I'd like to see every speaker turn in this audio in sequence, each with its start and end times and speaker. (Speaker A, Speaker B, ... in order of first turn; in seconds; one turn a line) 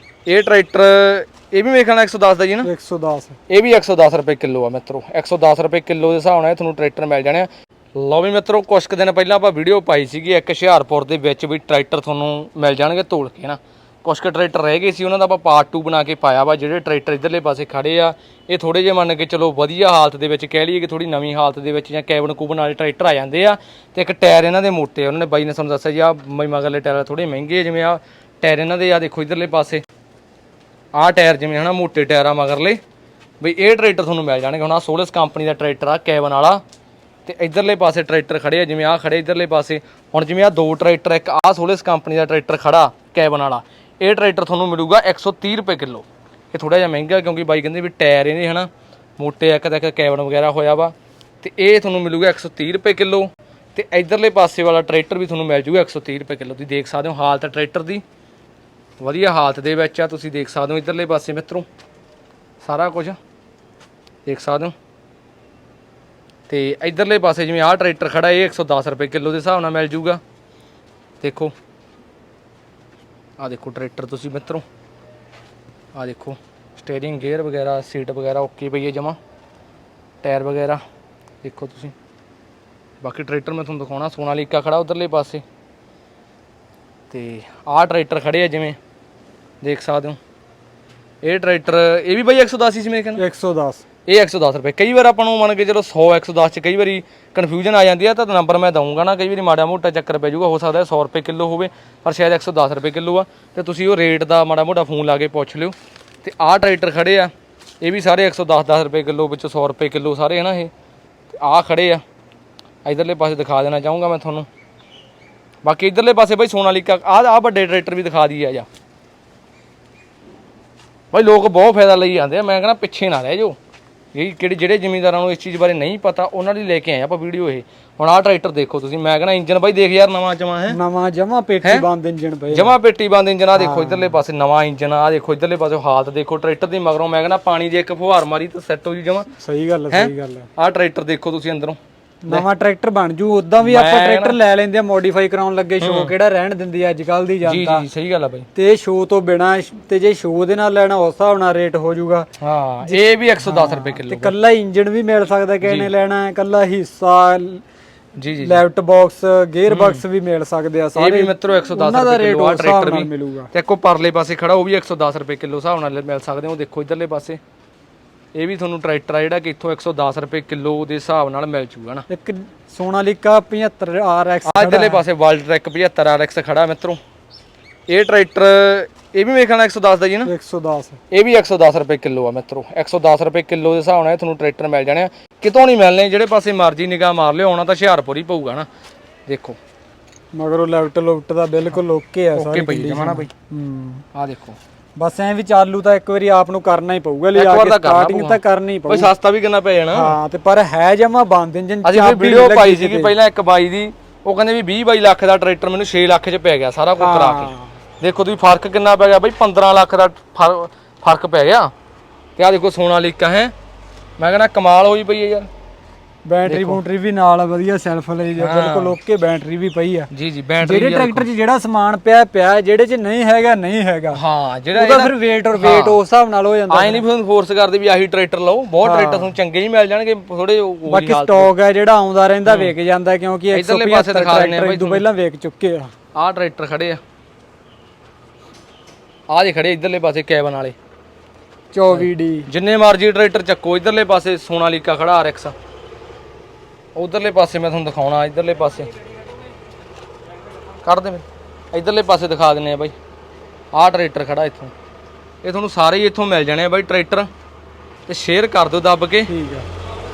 Speaker A: 0.2-2.7
Speaker B: 2.6-3.4
Speaker A: 3.5-29.8
Speaker A: 30.9-32.8
Speaker A: 33.4-36.6
Speaker A: 37.2-58.0
Speaker A: 59.0-61.6
Speaker A: 62.6-63.2
Speaker A: 64.2-64.7
Speaker A: 66.5-70.2
Speaker A: 71.2-71.5
Speaker A: 73.4-74.6
Speaker A: 75.9-79.2
Speaker A: 80.2-80.8
Speaker A: 81.4-81.9
Speaker A: 83.0-85.4
Speaker A: 87.1-88.8
Speaker A: 89.6-90.2
Speaker A: 91.2-93.2
Speaker B: 93.2-93.8
Speaker A: 94.0-110.7
Speaker A: 111.3-112.0
Speaker A: 112.8-114.5
Speaker A: 115.6-118.7
Speaker A: 121.1-123.6
Speaker A: 124.1-130.8
Speaker B: 130.7-132.7
Speaker A: 132.5-139.3
Speaker B: 133.5-134.2
Speaker B: 139.4-140.5
Speaker A: 139.9-141.8
Speaker B: 142.2-147.8
Speaker A: 143.6-144.3
Speaker A: 145.8-146.1
Speaker A: 147.4-148.5
Speaker B: 148.5-152.3
Speaker A: 152.4-154.3
Speaker B: 152.8-157.6
Speaker A: 155.6-155.9
Speaker A: 158.2-158.6
Speaker B: 158.4-163.5
Speaker A: 159.7-160.0
Speaker A: 160.9-167.4
Speaker A: 168.3-172.1
Speaker B: 172.1-175.0
Speaker A: 174.4-177.0
Speaker A: 177.9-180.3
Speaker B: 180.2-181.0
Speaker A: 181.1-188.7
Speaker A: 189.3-189.6
Speaker B: 190.3-194.0
Speaker A: 192.3-193.3
Speaker A: 194.1-194.6
Speaker B: 195.0-199.1
Speaker A: 197.3-200.1
Speaker B: 199.9-203.2
Speaker A: 201.8-211.7
Speaker B: 207.0-207.7
Speaker A: 212.4-213.5
Speaker A: 214.2-215.5
Speaker B: 216.3-220.1
Speaker A: 216.4-216.8
Speaker A: 218.4-218.9
Speaker A: 220.1-221.2
Speaker B: 220.6-224.2
Speaker A: 224.1-226.0
Speaker B: 224.7-227.0
Speaker A: 226.7-231.5
Speaker B: 228.8-229.3
Speaker B: 230.9-235.9
Speaker A: 232.4-232.7
Speaker A: 233.5-235.0
Speaker A: 236.1-237.0
Speaker A: 239.3-240.8
Speaker B: 241.7-242.5
Speaker A: 241.9-245.5
Speaker A: 246.9-248.9
Speaker A: 250.8-252.9
Speaker A: 253.7-254.7
Speaker A: 255.4-257.3
Speaker A: 258.1-259.3
Speaker B: 259.3-259.7